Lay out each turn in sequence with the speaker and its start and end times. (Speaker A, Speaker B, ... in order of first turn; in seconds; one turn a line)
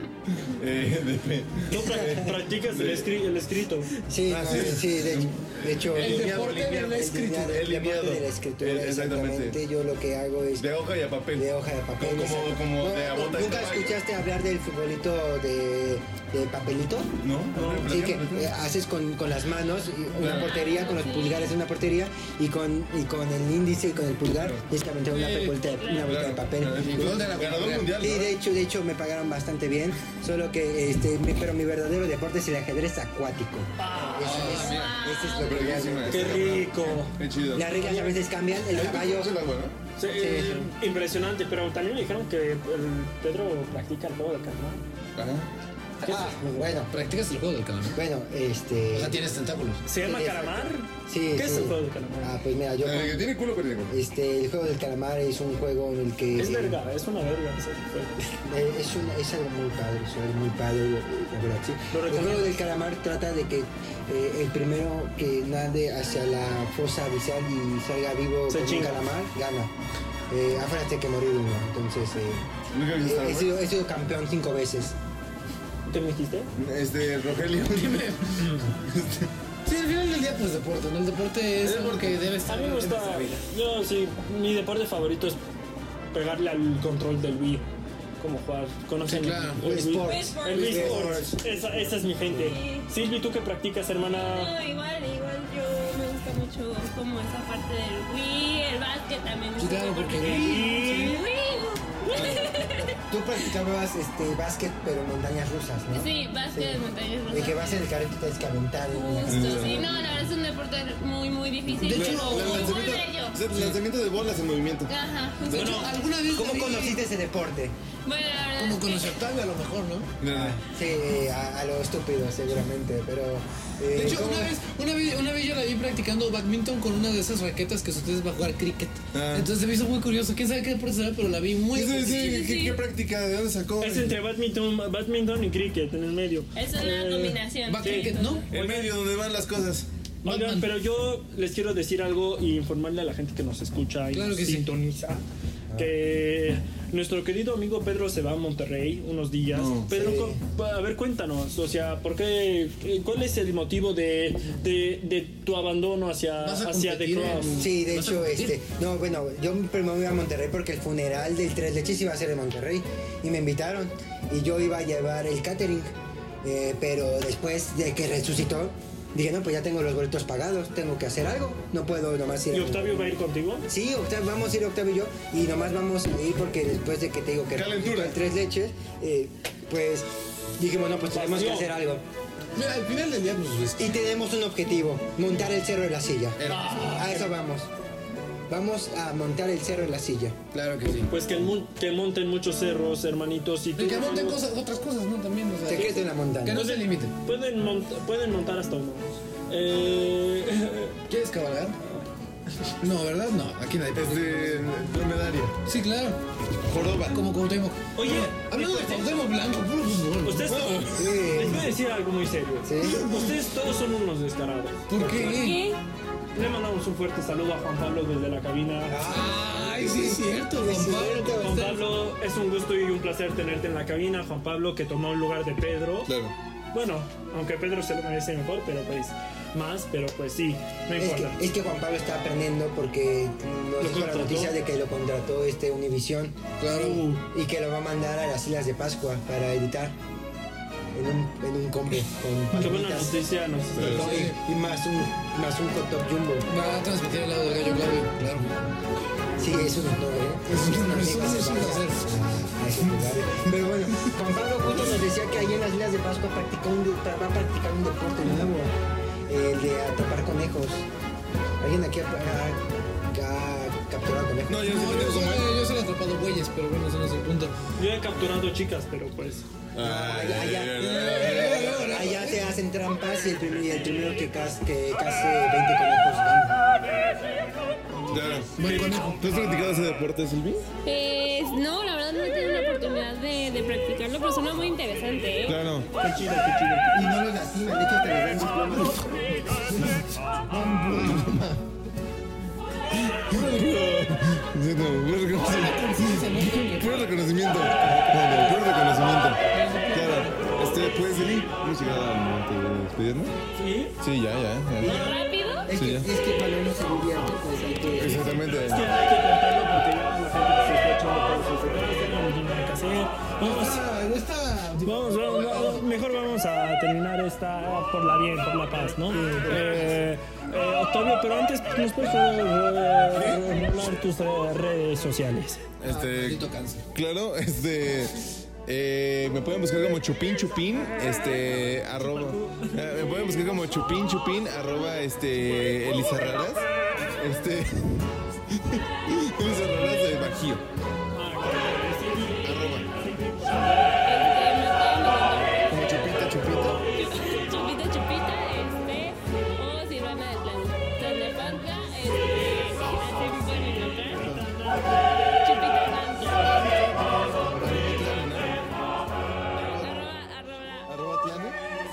Speaker A: 0.3-3.1
Speaker B: 1.7-3.9
Speaker C: 4.1-10.7
Speaker A: 4.3-9.6
Speaker D: 4.5-4.8
Speaker D: 5.9-7.5
Speaker A: 10.6-11.5
Speaker C: 11.3-17.1
Speaker A: 12.0-14.0
Speaker A: 17.2-18.5
Speaker B: 17.6-17.8
Speaker C: 17.7-27.3
Speaker A: 20.2-20.5
Speaker E: 20.2-21.5
Speaker A: 24.4-24.6
Speaker D: 25.1-25.6
Speaker E: 25.8-26.2
Speaker A: 25.9-28.4
Speaker D: 26.7-28.0
Speaker C: 28.0-36.6
Speaker B: 33.8-34.5
Speaker D: 34.2-34.9
Speaker E: 34.4-35.9
Speaker A: 34.6-37.7
Speaker B: 36.1-37.1
Speaker C: 37.5-39.4
Speaker B: 37.7-38.2
Speaker A: 38.7-39.8
Speaker B: 40.0-44.8
Speaker C: 40.1-40.7
Speaker A: 45.1-45.5
Speaker C: 46.0-46.9
Speaker D: 46.1-46.3
Speaker D: 46.9-48.0
Speaker C: 48.0-49.2
Speaker D: 48.9-49.9
Speaker B: 49.9-52.4
Speaker C: 50.0-53.4
Speaker A: 52.8-54.0
Speaker C: 53.9-56.8
Speaker B: 56.4-58.2
Speaker C: 58.3-69.7
Speaker B: 61.9-62.6
Speaker B: 68.5-69.0
Speaker C: 70.3-72.5
Speaker A: 72.7-73.6
Speaker C: 73.0-75.0
Speaker B: 75.9-76.5
Speaker A: 76.6-79.3
Speaker B: 78.4-78.7
Speaker D: 79.6-83.4
Speaker A: 81.6-82.2
Speaker B: 82.5-85.4
Speaker B: 86.1-87.7
Speaker B: 88.2-94.5
Speaker D: 89.1-89.7
Speaker C: 89.6-91.5
Speaker E: 90.0-91.2
Speaker E: 92.3-92.9
Speaker E: 94.1-102.9
Speaker D: 99.6-101.2
Speaker B: 100.2-101.3
Speaker C: 102.1-109.9
Speaker E: 105.9-107.8
Speaker E: 108.9-113.4
Speaker A: 109.3-110.0
Speaker D: 111.7-112.8
Speaker A: 111.9-114.9
Speaker E: 114.9-115.8
Speaker D: 115.4-117.0
Speaker B: 115.5-115.9
Speaker C: 116.3-117.8
Speaker E: 118.0-119.2
Speaker D: 118.5-120.1
Speaker A: 120.2-120.6
Speaker C: 120.3-124.6
Speaker D: 123.9-132.4
Speaker A: 129.1-129.5
Speaker A: 131.7-134.2
Speaker E: 132.1-132.8
Speaker B: 133.8-139.0
Speaker E: 136.6-138.5
Speaker D: 137.7-138.5
Speaker A: 138.5-139.9
Speaker B: 140.2-145.2
Speaker D: 140.2-140.7
Speaker D: 144.1-144.7
Speaker C: 145.7-145.9
Speaker B: 145.8-157.6
Speaker A: 149.5-149.9
Speaker C: 149.9-150.4
Speaker D: 156.4-158.6
Speaker C: 157.6-165.9
Speaker C: 166.4-172.9
Speaker B: 172.5-173.7
Speaker C: 173.7-182.0
Speaker A: 177.6-178.2
Speaker B: 181.1-181.8
Speaker D: 182.6-183.9
Speaker C: 183.8-186.4
Speaker A: 186.4-186.8
Speaker D: 186.4-187.2
Speaker C: 186.9-187.7
Speaker C: 188.5-190.4
Speaker D: 190.5-191.1
Speaker B: 191.1-194.4
Speaker D: 193.8-197.1
Speaker C: 195.7-196.6
Speaker B: 196.5-201.0
Speaker D: 201.1-201.8
Speaker B: 201.8-202.1
Speaker D: 202.8-204.7
Speaker A: 203.9-205.6
Speaker D: 205.6-206.2
Speaker A: 206.5-207.2
Speaker D: 207.0-210.5
Speaker B: 207.9-209.2
Speaker B: 210.2-214.8
Speaker A: 210.5-211.0
Speaker C: 210.9-211.7
Speaker C: 212.6-213.0
Speaker D: 212.9-213.3
Speaker D: 214.9-215.6
Speaker C: 215.0-215.4
Speaker E: 215.2-215.8
Speaker B: 216.3-219.1
Speaker C: 218.9-221.6
Speaker D: 219.0-221.9
Speaker B: 221.4-226.1
Speaker A: 226.1-226.3
Speaker B: 226.7-231.4
Speaker C: 231.0-240.0
Speaker B: 233.8-234.6
Speaker D: 236.6-237.1
Speaker B: 236.9-237.2
Speaker C: 240.9-243.2
Speaker B: 242.6-244.3
Speaker A: 243.8-244.0
Speaker D: 243.8-244.4
Speaker C: 243.8-246.5
Speaker D: 246.5-248.5
Speaker C: 249.4-258.7
Speaker D: 250.5-252.1
Speaker C: 259.3-260.9
Speaker C: 261.6-264.6
Speaker A: 264.5-265.5
Speaker D: 264.6-267.6
Speaker B: 267.8-269.5
Speaker A: 269.7-272.0
Speaker C: 269.8-276.6
Speaker D: 270.8-272.6
Speaker A: 278.1-280.7
Speaker D: 278.4-279.2
Speaker E: 280.9-285.6
Speaker A: 285.4-285.9
Speaker B: 286.0-287.1
Speaker C: 286.9-289.3
Speaker D: 289.9-291.6
Speaker A: 292.9-299.4
Speaker D: 293.4-293.7
Speaker D: 295.3-297.1
Speaker C: 297.4-298.9
Speaker D: 299.5-300.5
Speaker A: 299.9-303.4
Speaker B: 303.6-304.0
Speaker A: 304.0-305.1
Speaker C: 304.8-308.4
Speaker E: 304.8-305.7
Speaker A: 305.8-306.1
Speaker A: 307.9-308.8
Speaker B: 308.2-313.8
Speaker D: 313.4-315.8
Speaker B: 314.8-325.6
Speaker A: 319.4-319.8
Speaker A: 323.1-323.4
Speaker A: 325.8-340.6
Speaker D: 325.9-326.8
Speaker B: 332.0-332.8
Speaker B: 341.1-344.0
Speaker A: 342.4-342.9
Speaker E: 344.1-345.9
Speaker A: 345.7-346.8
Speaker C: 346.0-346.4
Speaker E: 346.9-354.3
Speaker A: 354.2-354.6
Speaker E: 355.4-356.6
Speaker A: 356.3-358.9
Speaker A: 359.5-360.1
Speaker E: 359.6-360.9
Speaker A: 360.9-361.6